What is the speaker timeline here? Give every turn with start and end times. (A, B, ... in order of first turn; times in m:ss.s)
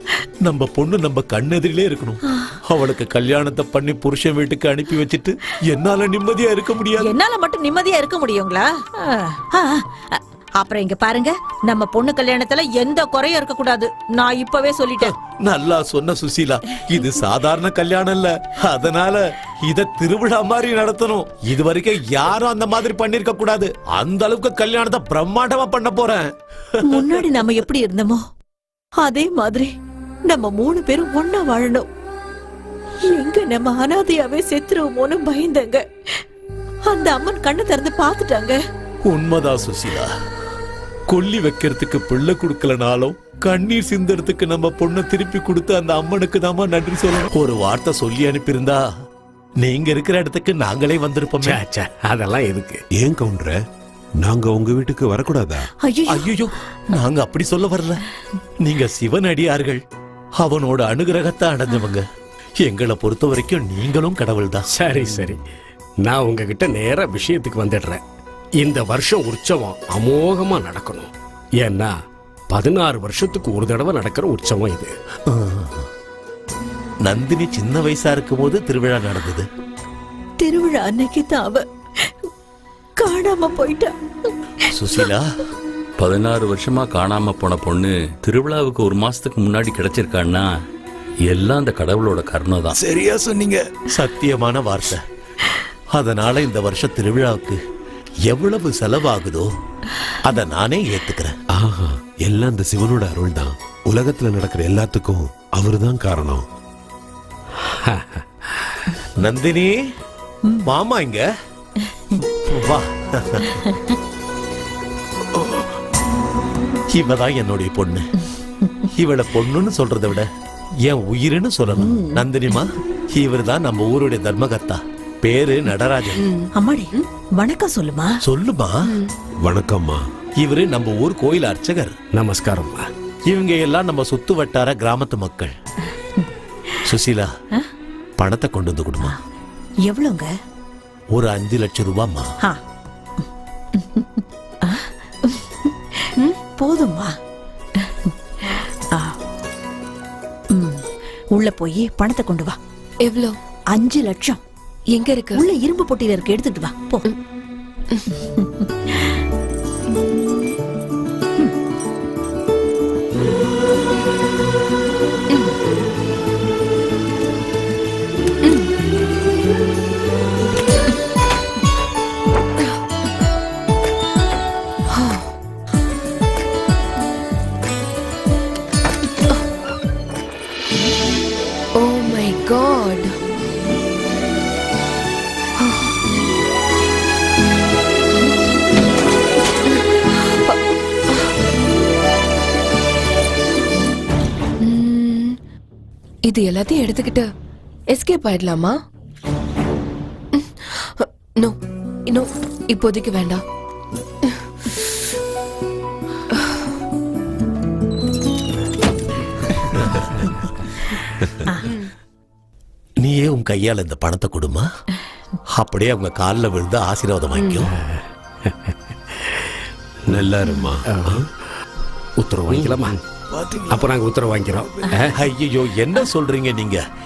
0:00.4-0:07.1 A
0:02.3-0:02.6 B
0:07.0-0:15.1 B
0:15.0-0:27.4 A
0:26.8-0:28.2 B
0:29.0-0:29.7 B
0:30.3-0:31.9 B
0:33.1-0:35.8 B
0:36.9-0:38.6 B
0:39.1-0:40.1 A
0:41.1-0:48.8 A
0:49.6-0:51.6 A
0:51.4-0:52.8 C
0:53.0-0:53.6 D
0:54.2-0:55.7 D
0:55.8-0:56.3 B
0:56.1-0:58.0 A
0:58.6-0:59.8 A
1:00.4-1:02.0 A
1:01.7-1:02.0 B
1:02.6-1:04.7 A
1:04.7-1:05.4 C
1:06.0-1:08.0 C
1:08.6-1:12.0 C
1:12.5-1:14.9 C
1:15.3-1:15.9 A
1:17.0-1:19.5 A
1:20.4-1:22.3 B
1:23.0-1:24.3 B
1:24.7-1:25.3 A
1:26.0-1:30.6 E
1:31.3-1:32.8 E
1:33.9-1:35.0 A
1:35.9-1:37.6 A
1:38.3-1:39.5 A
1:40.2-1:41.4 A
1:41.5-1:46.4 D
1:47.9-1:48.2 C
1:49.2-1:49.8 A
1:50.6-1:51.2 A
1:52.3-1:53.6 A
1:53.6-1:53.9 B
1:56.9-1:58.1 A
1:59.0-2:00.3 A
2:00.8-2:06.2 A
2:01.8-2:02.2 B
2:06.2-2:07.0 F
2:06.6-2:08.2 B
2:08.2-2:08.9 A
2:09.4-2:10.0 D
2:10.4-2:11.9 A
2:12.1-2:12.9 C
2:13.3-2:15.5 A
2:16.9-2:17.3 A
2:18.2-2:19.2 A
2:19.9-2:20.3 B
2:21.1-2:22.3 A
2:23.8-2:25.7 B
2:26.6-2:27.1 B
2:27.8-2:29.2 B
2:30.5-2:30.8 B
2:31.4-2:32.6 B
2:33.0-2:33.3 F
2:33.7-2:34.4 B
2:35.0-2:35.4 F
2:35.4-2:37.0 B
2:38.2-2:39.2 B
2:54.9-2:55.3 F
3:01.8-3:03.1 F
3:05.6-3:05.9 F
3:14.6-3:15.3 F
3:16.3-3:17.2 F
3:17.9-3:18.7 F
3:20.3-3:21.6 F
3:22.1-3:23.4 F
3:29.8-3:30.0 A
3:31.6-3:31.9 F
3:33.0-3:34.7 A
3:35.5-3:37.7 A
3:37.4-3:37.7 F
3:37.8-3:38.0 C
3:40.1-3:41.2 D
3:40.9-3:41.2 C
3:42.2-3:43.0 C
3:43.7-3:45.2 C
3:45.1-3:46.8 A